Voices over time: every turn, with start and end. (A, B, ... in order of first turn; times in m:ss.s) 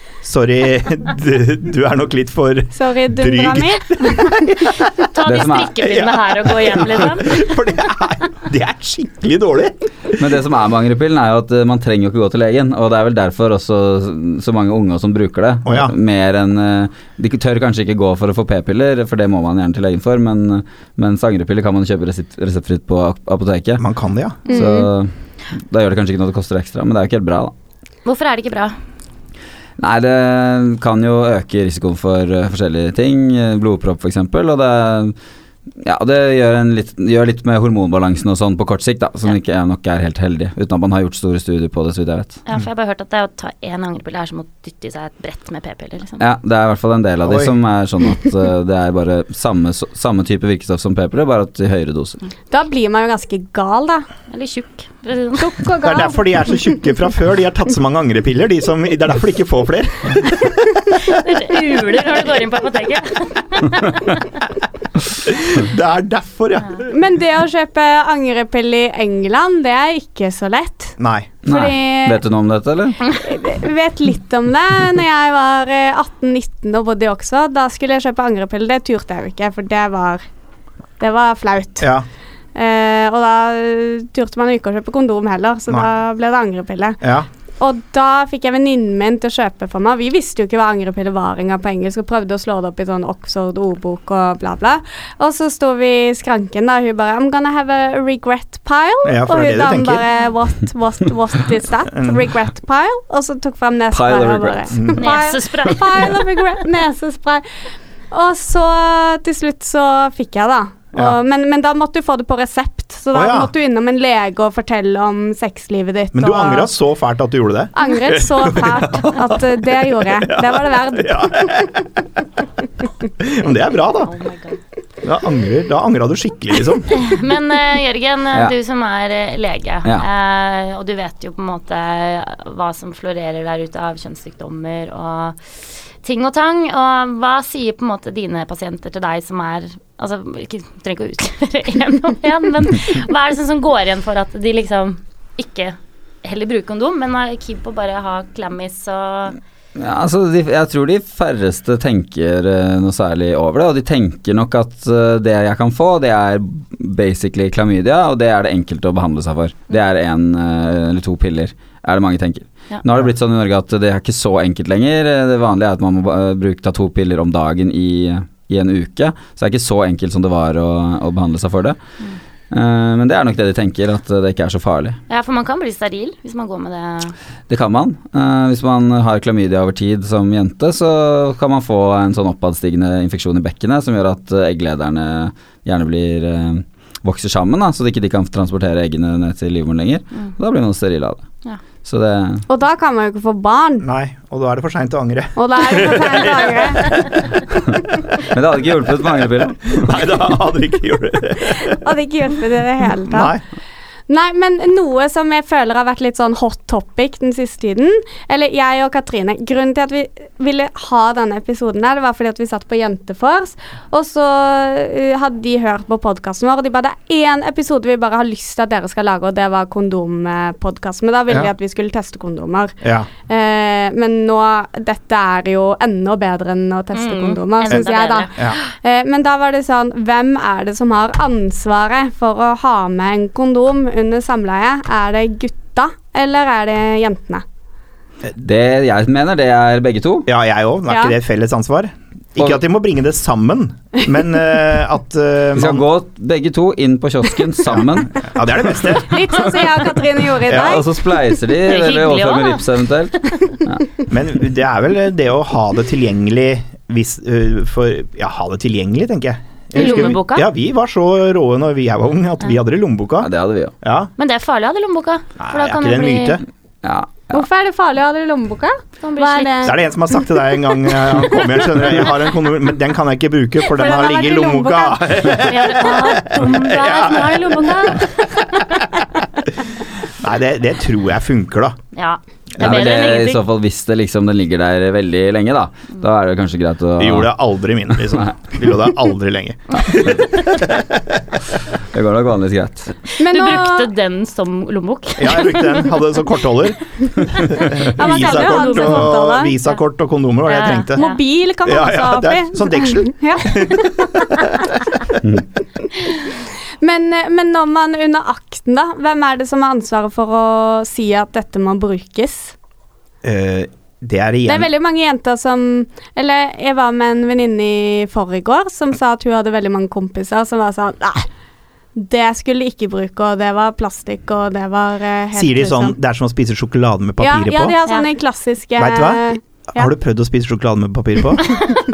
0:00.2-0:05.1 A
0:02.7-0:04.4 B
0:05.1-0:07.4 C
0:05.2-0:05.8 D
0:05.8-0:10.2 A
0:10.2-0:23.8 D
0:15.6-0:15.9 A
0:23.8-0:24.5 A
0:24.4-0:27.5 D
0:24.5-0:24.9 B
0:28.0-0:28.8 C
0:29.8-0:35.1 D
0:35.8-0:42.4 D
0:42.5-0:46.2 C
0:46.2-0:52.2 D
0:47.2-0:47.5 A
0:52.5-0:54.1 B
0:54.3-0:55.6 C
0:55.4-0:56.6 B
0:55.8-1:01.2 A
1:01.0-1:04.3 C
1:05.2-1:06.9 A
1:06.9-1:12.2 B
1:11.0-1:11.3 A
1:11.4-1:13.0 D
1:13.1-1:20.2 B
1:21.0-1:21.9 B
1:21.8-1:22.0 A
1:22.5-1:27.0 B
1:27.0-1:27.3 A
1:27.6-1:47.4 B
1:39.0-1:40.0 A
1:41.9-1:42.2 A
1:43.9-1:44.8 D
1:44.7-1:45.1 A
1:45.0-1:46.2 C
1:48.1-1:56.7 B
1:53.1-1:53.5 A
1:56.1-2:02.0 A
1:57.7-2:01.7 B
2:03.2-2:04.1 A
2:04.0-2:04.6 C
2:05.0-2:07.0 A
2:06.9-2:15.4 C
2:16.0-2:29.4 C
2:29.7-2:51.8 D
2:52.5-2:55.0 D
2:55.1-2:57.1 C
2:57.5-3:11.2 D
3:11.8-3:12.4 D
3:12.5-3:13.9 B
3:13.8-3:17.1 A
3:15.4-3:17.0 B
3:18.2-3:20.0 D
3:19.7-3:21.8 A
3:21.5-3:23.3 B
3:23.0-3:23.4 A
3:24.1-3:57.4 B
3:42.8-3:43.1 A
3:46.9-3:48.5 C
3:58.3-4:00.3 D
4:00.2-4:05.8 A
4:00.9-4:01.1 B
4:05.6-4:08.2 D
4:08.2-4:09.2 A
4:08.9-4:10.9 B
4:10.4-4:13.9 D
4:11.6-4:13.5 C
4:14.1-4:23.3 A
4:19.7-4:20.5 C
4:23.2-4:23.7 D
4:23.8-4:24.1 A
4:24.2-4:26.4 C
4:25.4-4:26.4 A
4:26.8-4:27.4 D
4:27.3-4:29.8 B
4:29.0-4:29.8 C
4:29.6-4:38.0 A
4:33.6-4:35.1 B
4:35.3-4:38.8 C
4:40.2-4:41.8 A
4:41.9-4:43.4 C
4:42.6-4:47.3 D
4:47.0-4:51.2 A
4:51.9-4:53.0 D
4:53.1-4:55.9 C
4:53.2-4:53.9 B
4:55.2-5:01.0 A
4:57.6-4:59.1 C
4:58.0-4:59.5 B
5:00.4-5:01.2 C
5:00.9-5:04.4 B
5:01.6-5:05.1 A
5:06.8-5:12.5 B
5:13.2-5:14.7 A
5:14.4-5:21.3 B
5:21.9-5:26.0 B
5:25.3-5:27.8 A
5:27.2-5:29.9 B
5:28.8-5:31.5 A